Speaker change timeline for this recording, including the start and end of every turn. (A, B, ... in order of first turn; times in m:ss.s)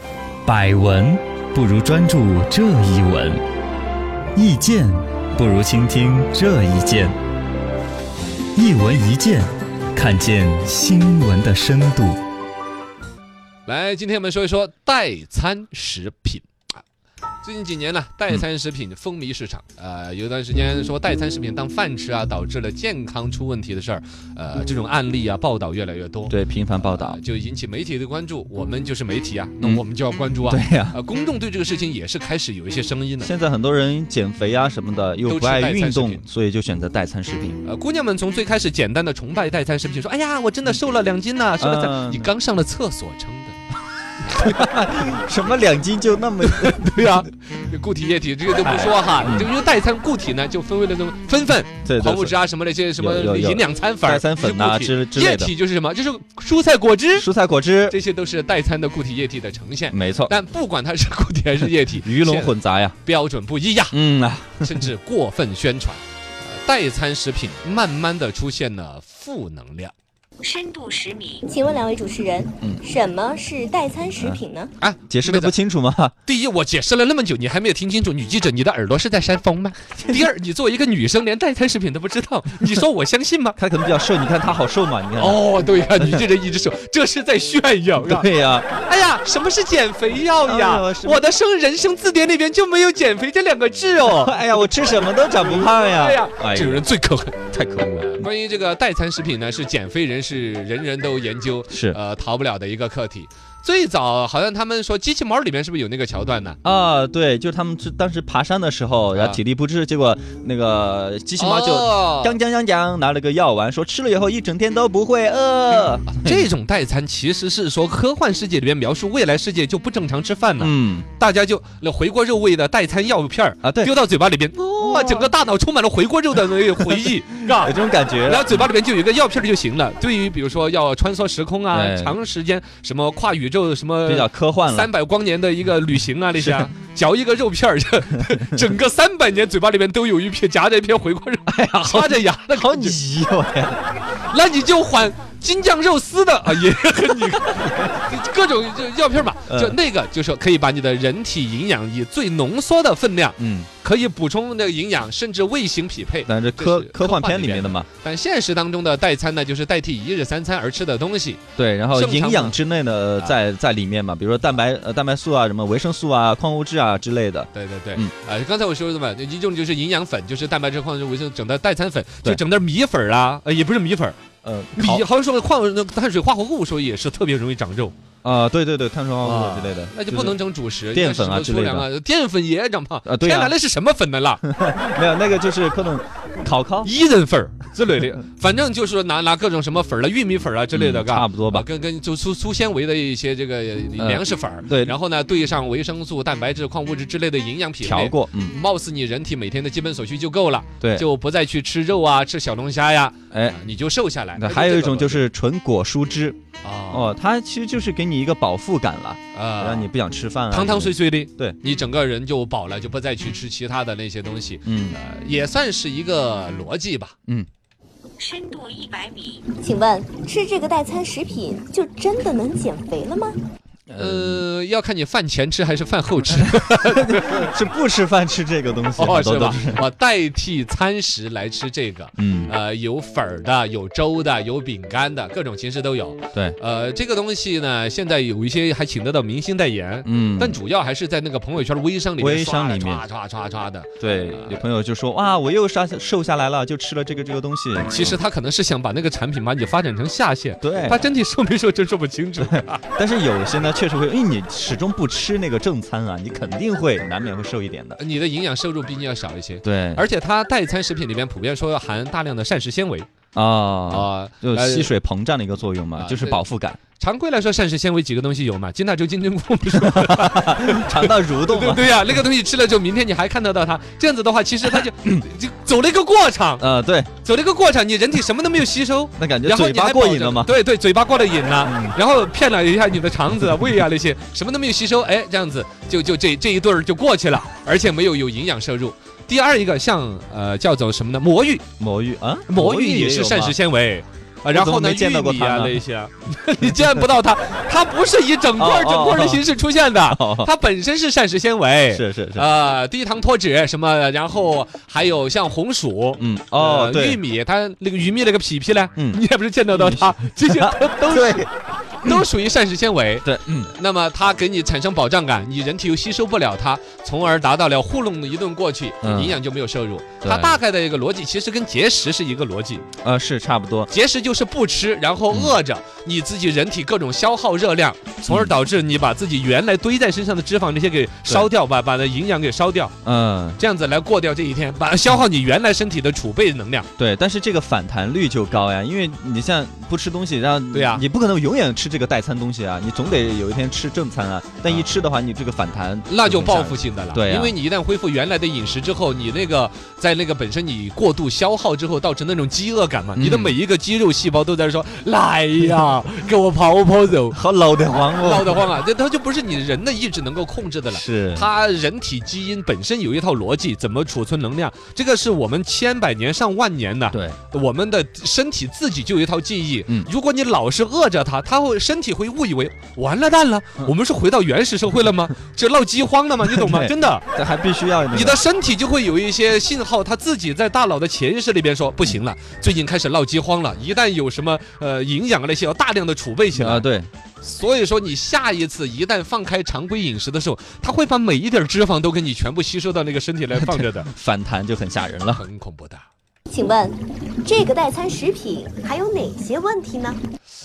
0:00.5-0:03.4 A
0:04.4-0:07.2 A
0:08.6-0:12.2 A
0:13.7-0:16.5 B
0:17.4-0:33.3 B
0:26.3-0:27.2 A
0:30.5-0:31.0 A
0:33.2-0:37.6 A
0:35.3-0:36.2 B
0:37.6-0:43.6 B
0:41.6-0:42.3 A
0:44.2-0:44.6 B
0:44.3-0:47.1 A
0:46.4-0:57.3 B
0:48.6-0:49.5 A
0:51.8-0:52.4 A
0:53.0-0:55.5 A
0:57.2-0:58.0 A
0:57.9-1:04.0 B
0:59.9-1:00.4 A
1:01.9-1:03.0 A
1:03.9-1:04.9 A
1:04.6-1:09.9 B
1:10.4-1:11.4 C
1:10.4-1:14.7 D
1:14.2-1:14.4 A
1:14.8-1:15.5 B
1:15.1-1:16.1 A
1:16.2-1:23.6 B
1:23.6-1:25.4 A
1:25.2-1:37.4 B
1:28.0-1:28.7 A
1:30.4-1:31.3 A
1:34.2-1:36.9 A
1:37.5-1:38.3 A
1:38.0-1:46.6 B
1:41.7-1:42.0 A
1:46.6-1:56.5 A
1:49.1-1:49.4 B
1:51.4-1:52.4 B
1:56.1-2:23.0 B
2:00.6-2:01.1 A
2:03.6-2:03.9 A
2:04.8-2:05.3 A
2:07.5-2:08.7 A
2:11.7-2:12.2 A
2:14.1-2:14.9 A
2:16.4-2:16.7 A
2:18.2-2:18.7 A
2:21.5-2:23.8 A
2:24.2-2:41.4 B
2:29.5-2:29.8 A
2:33.4-2:33.7 A
2:36.2-2:37.9 A
2:41.6-2:48.1 A
2:41.9-2:42.6 B
2:47.5-2:54.2 B
2:54.4-2:55.0 A
2:54.8-2:57.9 B
2:58.2-3:00.4 A
2:59.2-3:04.4 B
3:00.9-3:01.9 A
3:03.0-3:03.6 A
3:04.4-3:06.9 A
3:06.8-3:25.2 B
3:10.7-3:11.7 A
3:14.0-3:15.0 A
3:17.8-3:18.6 A
3:20.8-3:21.1 A
3:23.3-3:23.6 A
3:24.4-3:26.4 A
3:26.6-3:27.1 B
3:26.9-3:31.6 A
3:29.3-3:29.9 B
3:30.5-3:37.2 B
3:34.6-3:35.0 A
3:38.2-3:39.4 C
3:39.5-3:43.4 D
3:43.9-3:44.4 A
3:44.0-3:47.5 B
3:46.3-3:49.8 A
3:49.0-4:04.6 B
3:52.2-3:52.5 A
4:00.1-4:00.6 A
4:02.2-4:03.1 A
4:04.0-4:08.2 A
4:07.9-4:12.8 B
4:10.6-4:11.0 A
4:12.4-4:18.0 A
4:18.0-4:23.1 B
4:19.6-4:20.0 A
4:23.4-4:26.8 A
4:23.9-4:24.9 B
4:26.0-4:26.4 B
4:27.0-4:36.6 B
4:29.7-4:32.0 A
4:34.7-4:35.2 A
4:36.6-4:37.1 A
4:37.2-4:51.6 B
4:39.2-4:40.5 A
4:41.6-4:42.0 A
4:51.8-4:53.6 A
4:52.5-5:11.5 B
4:54.5-4:55.8 A
4:56.6-4:57.1 A
4:58.6-4:59.5 A
5:00.0-5:00.5 A
5:01.9-5:02.5 A
5:06.2-5:07.2 A
5:09.0-5:11.5 A
5:12.0-5:22.9 B
5:13.2-5:13.7 A
5:19.0-5:19.4 A
5:20.2-5:20.6 A
5:23.0-5:23.9 A
5:23.9-5:33.0 B
5:25.3-5:25.6 A
5:28.3-5:28.5 A
5:33.0-5:33.6 A
5:33.6-5:36.9 B
5:37.0-5:47.6 A
5:40.7-5:41.0 B
5:44.6-5:44.9 B
5:46.1-5:57.4 B
5:53.2-5:53.6 A
5:57.3-5:58.7 A
5:57.9-6:17.3 B
6:00.9-6:01.5 A
6:07.1-6:07.4 A
6:16.5-6:18.4 A
6:18.1-6:26.9 B
6:26.5-6:27.1 A
6:27.4-6:34.1 B
6:33.6-6:35.4 A
6:35.3-6:36.1 B
6:36.5-6:40.2 D